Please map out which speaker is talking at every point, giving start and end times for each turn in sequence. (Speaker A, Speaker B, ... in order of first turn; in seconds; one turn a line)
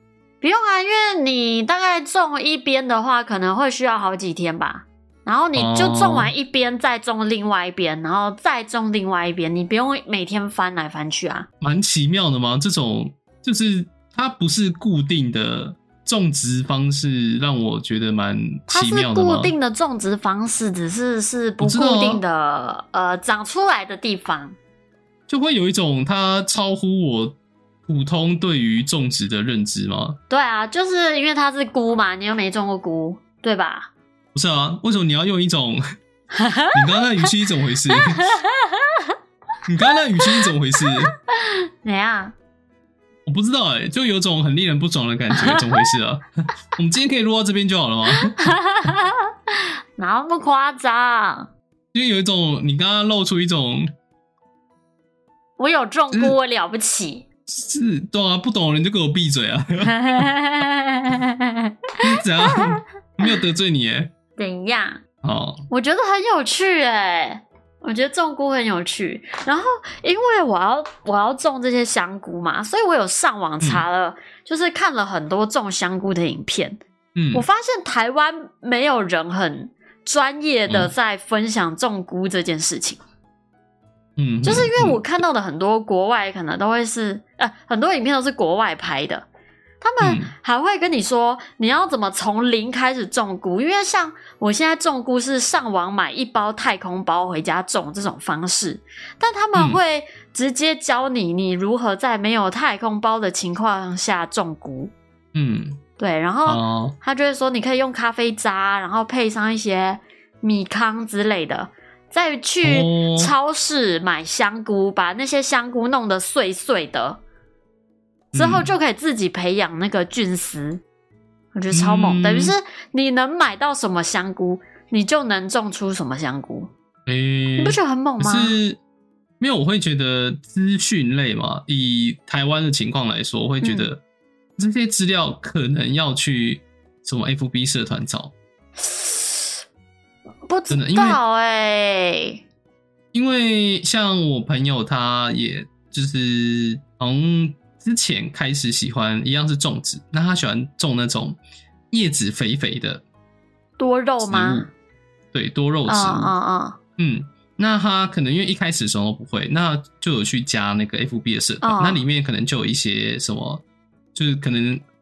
Speaker A: 0.4-11.5
Speaker B: 5.5-6.3
Speaker B: 11.6-19.5
Speaker A: 18.7-24.6
Speaker B: 21.6-22.2
Speaker B: 25.3-27.4
Speaker B: 27.9-30.2
Speaker A: 30.3-33.9
Speaker B: 34.3-35.8
Speaker A: 36.3-37.3
Speaker B: 36.7-38.3
Speaker A: 37.9-39.1
Speaker B: 39.7-41.1
Speaker A: 40.2-42.3
Speaker B: 43.3-46.2
Speaker A: 45.3-45.9
Speaker B: 46.8-48.5
Speaker A: 48.1-49.3
Speaker A: 50.0-51.5
Speaker B: 51.9-53.9
Speaker A: 55.6-57.2
Speaker B: 57.5-60.3
Speaker A: 59.8-63.4
Speaker B: 62.0-64.1
Speaker A: 64.4-65.0
Speaker B: 65.2-65.6
Speaker A: 65.7-76.8
Speaker B: 77.2-77.4
Speaker A: 77.3-83.0
Speaker B: 80.7-80.9
Speaker B: 84.2-85.0
Speaker A: 84.4-89.3
Speaker A: 89.8-104.9
Speaker B: 90.0-90.3
Speaker B: 99.5-99.8
Speaker B: 105.3-105.8
Speaker A: 106.0-117.2
Speaker B: 106.5-106.9
Speaker B: 112.6-113.3
Speaker B: 118.3-118.7
Speaker A: 118.3-120.8
Speaker A: 121.5-126.7
Speaker B: 121.7-122.5
Speaker B: 127.1-128.8
Speaker A: 127.6-128.6
Speaker B: 129.4-134.0
Speaker A: 133.6-133.9
Speaker B: 134.6-138.3
Speaker A: 138.8-139.6
Speaker A: 140.4-142.4
Speaker B: 140.7-141.2
Speaker B: 143.1-151.4
Speaker B: 151.9-153.0
Speaker A: 153.8-154.7
Speaker B: 154.2-154.7
Speaker B: 155.3-156.3
Speaker A: 155.9-156.8
Speaker B: 157.0-163.6
Speaker A: 161.6-162.1
Speaker B: 164.1-164.8